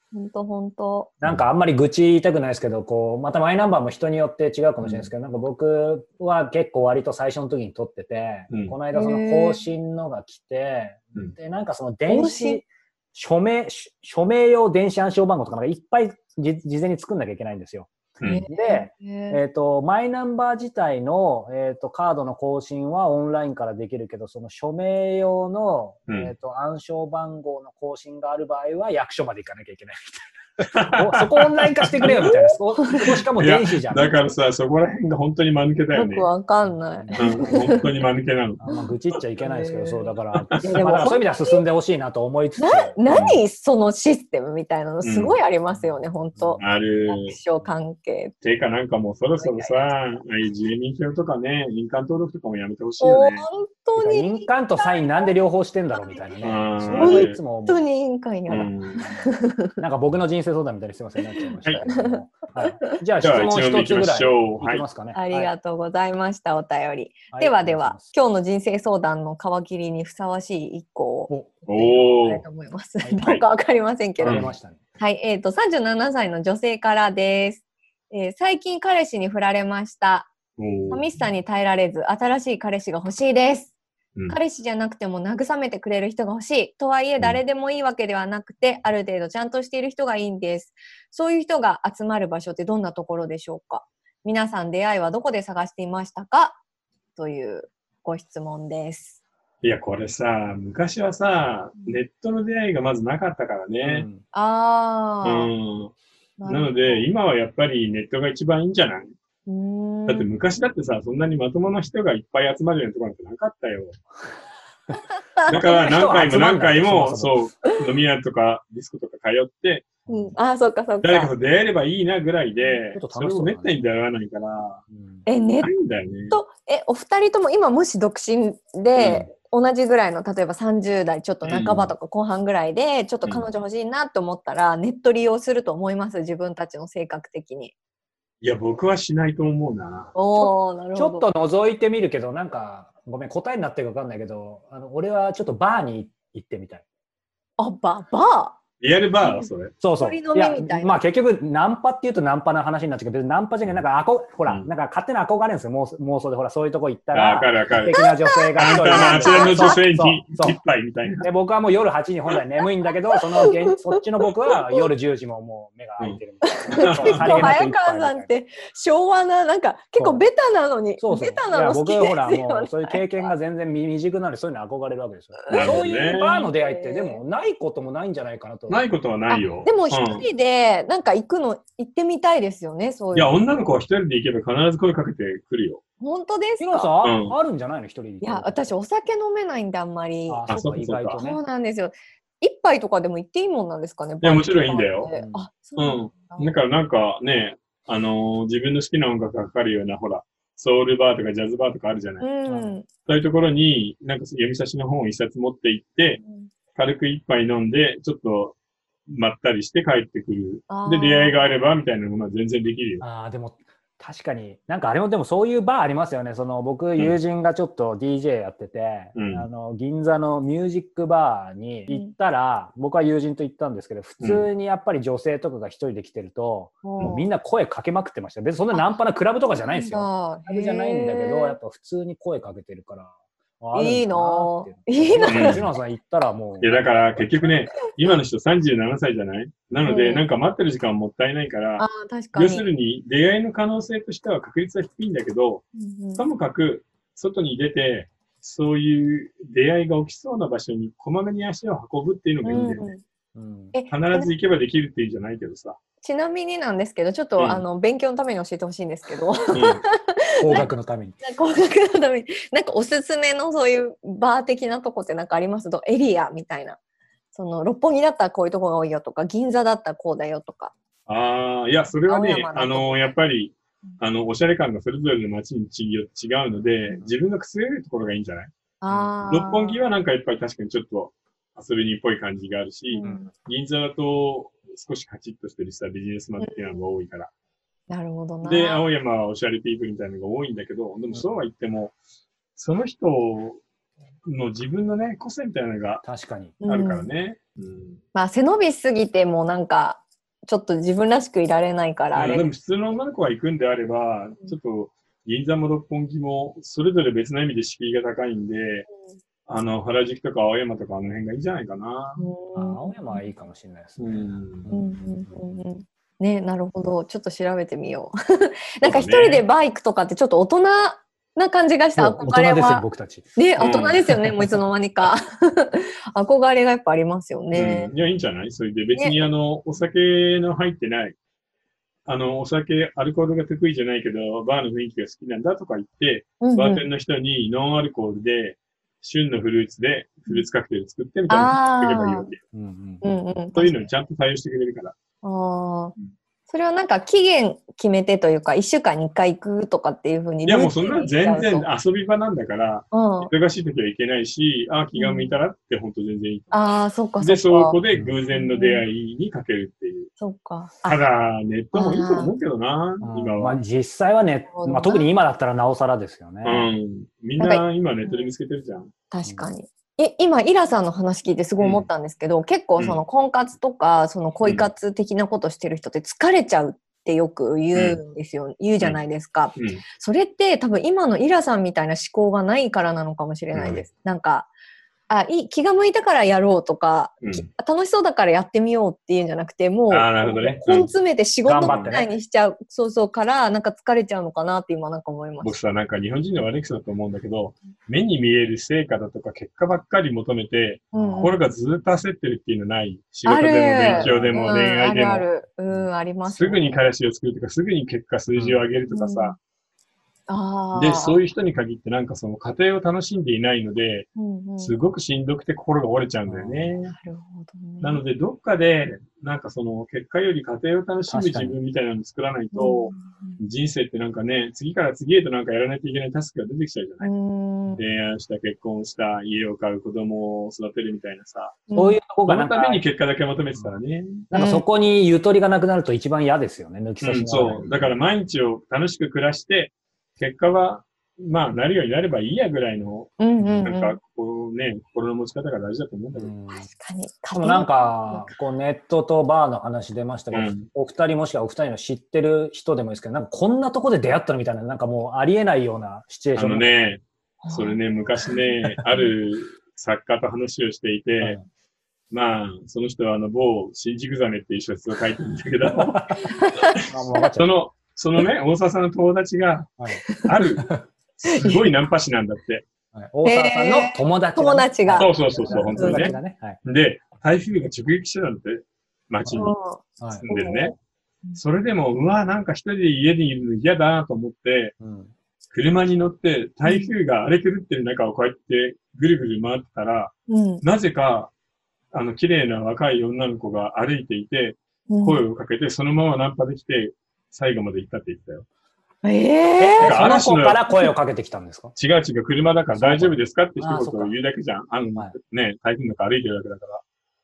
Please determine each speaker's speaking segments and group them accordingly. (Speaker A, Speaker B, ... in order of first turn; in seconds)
Speaker A: 0.1-1.1, 8.9-9.6, 12.1-12.6, 18.2-19.4, 32.1-33.1, 35.9-37.9, 39.4-41.6, 42.6-48.4, 49.4-50.2, 53.0-55.3, 55.9-56.4, 57.0-59.7, 61.4-63.0, 65.2-74.5, 75.0-80.3, 80.9-83.7, 84.3-96.6, 97.2-99.2, 104.3-105.5, 106.4-107.1, 109.5-110.3, 115.4-115.9, 120.1-121.3, 125.3-125.7, 126.3-137.7, 140.2-141.3, 147.6-148.6, 150.0-150.9, 157.8-159.8, 163.3-164.0, 166.4-173.3, 175.4-177.2, 179.3-183.4, 186.0-186.9, 188.2-190.6, 191.2-196.6, 202.2-202.9, 206.2-206.5, 210.7-211.6, 221.9-222.1, 226.8-227.3, 229.7-231.6, 233.7-235.7, 239.8-240.3, 241.8-242.7, 245.8-246.2, 252.4-253.0, 253.7-254.3, 256.0-259.8, 261.2-266.8, 267.3-270.7, 272.1-273.1, 278.8-279.9, 282.9-283.3, 286.4-286.8, 287.9-288.8, 296.6-297.1, 298.1-302.5, 312.2-313.2, 314.7-327.9, 329.0-329.3, 336.4-336.8, 341.3-342.3, 343.0-343.9, 345.2-345.9, 346.5-351.7, 352.9-353.3, 354.9-355.4, 356.5-357.8, 358.3-358.9, 360.2-361.0, 361.7-362.3, 364.5-365.1, 367.4-368.3, 369.1-384.5, 385.1-395.6, 400.9-401.4, 403.3-406.8, 408.9-409.4, 410.3-411.2, 414.2-414.8, 416.9-418.0, 422.5-423.4, 427.0-427.8, 431.7-432.0, 434.3-434.6, 443.2-444.0, 446.5-448.3, 457.4-457.8, 466.2-466.8, 471.3-471.7, 473.2-476.2, 479.4-480.7, 486.6-486.9, 490.3-490.6, 494.9-495.2, 499.0-500.1
Speaker B: 1.2-34.1, 36.6-37.9, 38.6-43.0, 45.7-46.6, 54.0-57.8, 59.0-65.5, 67.3-68.1, 71.3-71.6, 73.0-73.3, 74.2-74.8, 103.8-104.2, 114.9-117.5, 120.1-120.3, 122.9-123.9, 124.9-125.3, 140.4-146.8, 149.8-160.6, 161.2-168.3, 170.0-170.2, 171.0-178.8, 186.6-188.7, 190.3-191.4, 195.1-195.5, 202.5-202.8, 213.0-237.3, 253.3-253.8, 260.4-261.2, 296.0-296.6, 312.6-315.6, 322.0-323.4, 324.1-324.5, 342.5-343.1, 363.0-366.7, 391.4-392.1, 400.9-401.3, 403.9-404.6, 408.3-408.7, 416.3-416.8, 421.1-421.6, 431.8-432.9, 434.3-437.9, 443.4-443.7, 446.1-446.7, 447.3-456.8, 461.2-461.5, 465.9-466.2, 466.8-467.5, 472.9-476.6, 479.2-480.2, 484.8-485.1, 499.6-501.7, 502.7-504.1
Speaker C: 4.8-5.1, 8.5-8.8, 18.2-18.4, 26.1-26.3, 30.7-32.3, 33.4-36.3, 37.1-38.6, 40.3-40.7, 43.1-43.4, 45.0-45.4, 46.6-47.4, 48.4-53.5, 56.4-57.4, 58.5-59.0, 63.2-64.8, 71.7-72.5, 74.2-74.5, 80.6-81.1, 99.6-104.1, 105.2-105.9, 106.5-109.1, 110.1-114.0, 115.5-119.9, 121.0-124.8, 125.6-126.4, 129.0-129.3, 131.4-131.9, 138.4-140.2, 148.8-149.7, 157.1-157.9, 158.6-161.3, 166.8-167.6, 175.5-176.5, 178.7-180.3, 183.1-185.8, 187.0-187.3, 190.5-191.2, 194.2-195.1, 195.8-202.3, 203.1-206.2, 206.8-208.6, 209.1-213.0, 219.2-219.5, 224.2-224.5, 235.2-235.7, 236.6-252.9, 253.9-255.8, 257.4-257.6, 259.5-259.8, 271.1-287.3, 288.4-292.0, 292.6-293.6, 294.2-296.0, 296.6-298.0, 302.1-308.9, 309.5-312.3, 314.0-314.7, 318.8-319.4, 323.6-324.0, 327.5-331.2, 332.1-342.4, 343.5-344.9, 350.4-360.1, 360.8-363.6, 366.4-368.9, 371.6-371.9, 372.8-373.0, 374.4-374.7, 377.7-378.0, 379.6-379.8, 383.5-383.8, 387.2-387.5, 389.9-390.9, 391.6-392.1, 395.4-405.3, 406.2-409.4, 410.7-416.9, 417.8-427.1, 427.8-431.6, 432.2-434.2, 437.0-446.3, 450.3-450.7, 456.4-461.4, 462.1-466.3, 467.3-472.6, 474.9-479.5, 480.1-480.7, 481.4-484.7, 485.5-491.3, 491.9-498.4, 499.8-500.6, 501.8-506.8